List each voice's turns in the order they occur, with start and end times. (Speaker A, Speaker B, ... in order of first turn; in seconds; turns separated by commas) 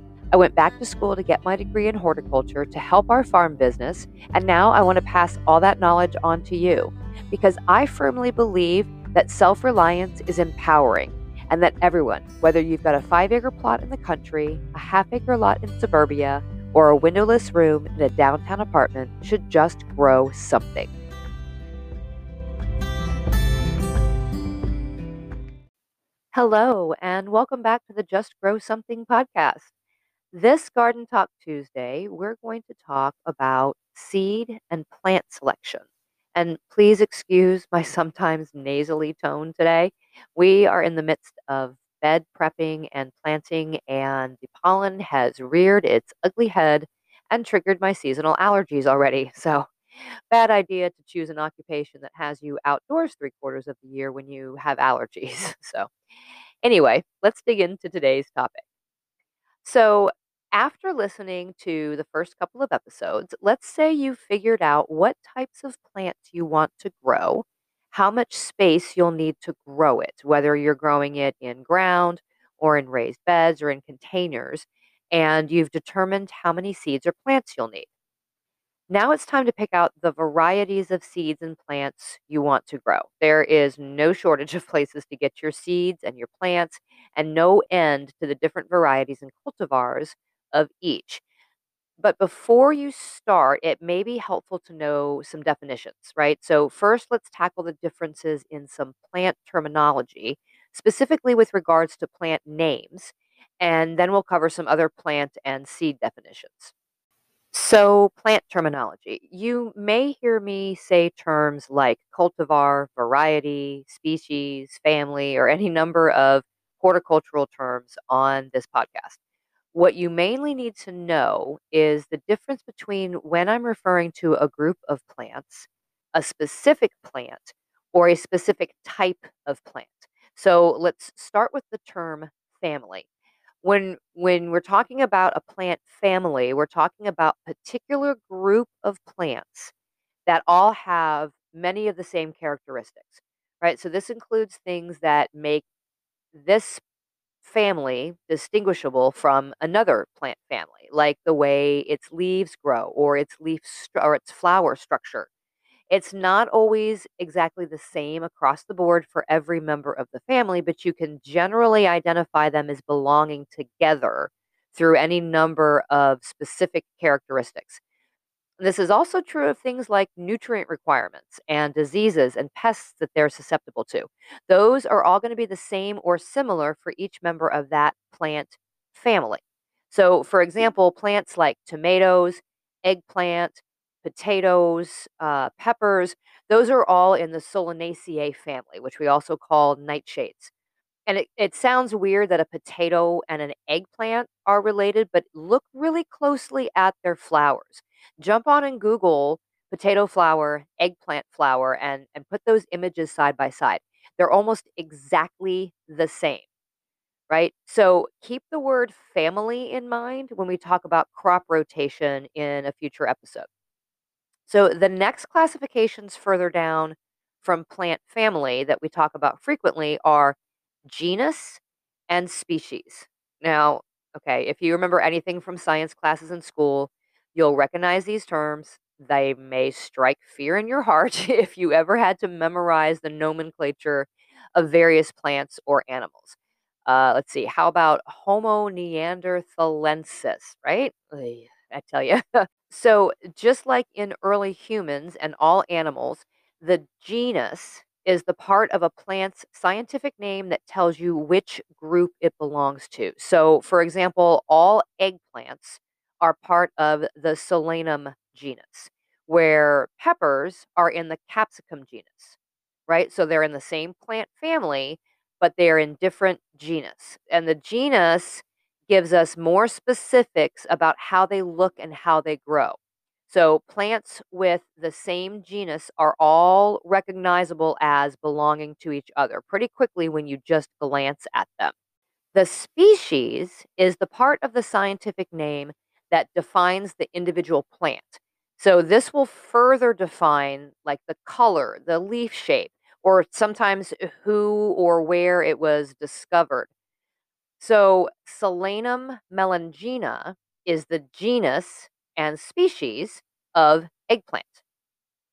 Speaker A: 0.3-20.9, Speaker A: 26.3-29.7, Speaker A: 30.3-35.8, Speaker A: 36.4-49.7, Speaker A: 50.3-55.9, Speaker A: 56.6-58.6, Speaker A: 59.6-77.9, Speaker A: 78.9-91.2, Speaker A: 92.0-106.7, Speaker A: 107.5-119.2, Speaker A: 119.7-133.1, Speaker A: 133.6-139.7, Speaker A: 140.3-145.7, Speaker A: 146.3-146.8, Speaker A: 147.4-155.3, Speaker A: 155.9-167.8, Speaker A: 168.6-190.5, Speaker A: 191.1-206.4, Speaker A: 207.3-213.5, Speaker A: 214.5-262.4, Speaker A: 262.9-281.7, Speaker A: 282.3-296.7, Speaker A: 297.6-304.6